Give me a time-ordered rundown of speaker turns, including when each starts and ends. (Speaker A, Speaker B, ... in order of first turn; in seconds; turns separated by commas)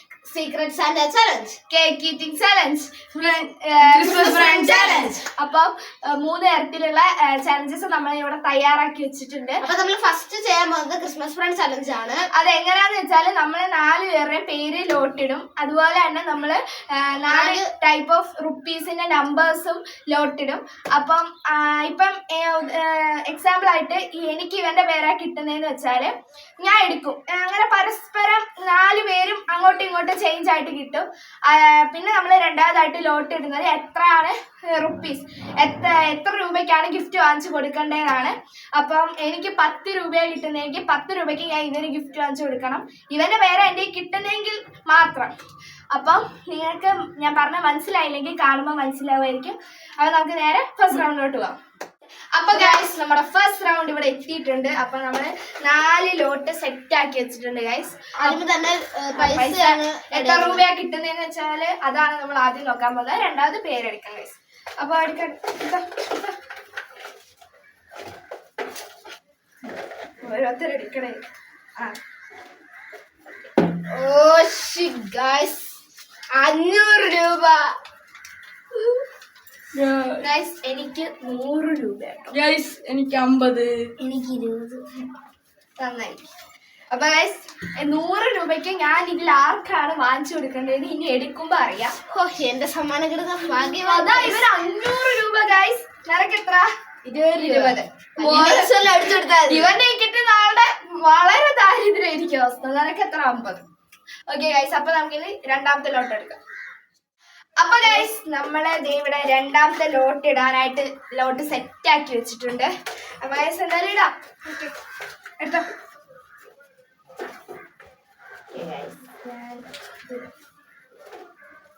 Speaker A: 0.3-1.6, Speaker B: 1.7-9.6, Speaker C: 3.8-5.2, Speaker A: 4.2-5.2, Speaker A: 9.6-12.3, Speaker B: 12.3-45.3, Speaker A: 17.3-17.7, Speaker B: 45.9-51.5, Speaker B: 52.3-58.4, Speaker A: 52.5-52.8, Speaker A: 58.2-60.6, Speaker B: 59.1-66.3, Speaker B: 70.2-71.2, Speaker A: 73.9-75.7, Speaker A: 76.3-77.7, Speaker C: 79.7-80.3, Speaker B: 80.2-82.4, Speaker C: 82.3-83.9, Speaker A: 84.0-84.8, Speaker B: 85.8-86.3, Speaker B: 86.9-91.9, Speaker A: 92.1-94.5, Speaker B: 93.8-98.8, Speaker C: 97.3-97.6, Speaker A: 97.4-99.7, Speaker B: 99.5-103.6, Speaker B: 104.3-106.4, Speaker B: 107.6-112.7, Speaker B: 113.2-114.7, Speaker B: 115.4-115.6, Speaker B: 118.5-120.2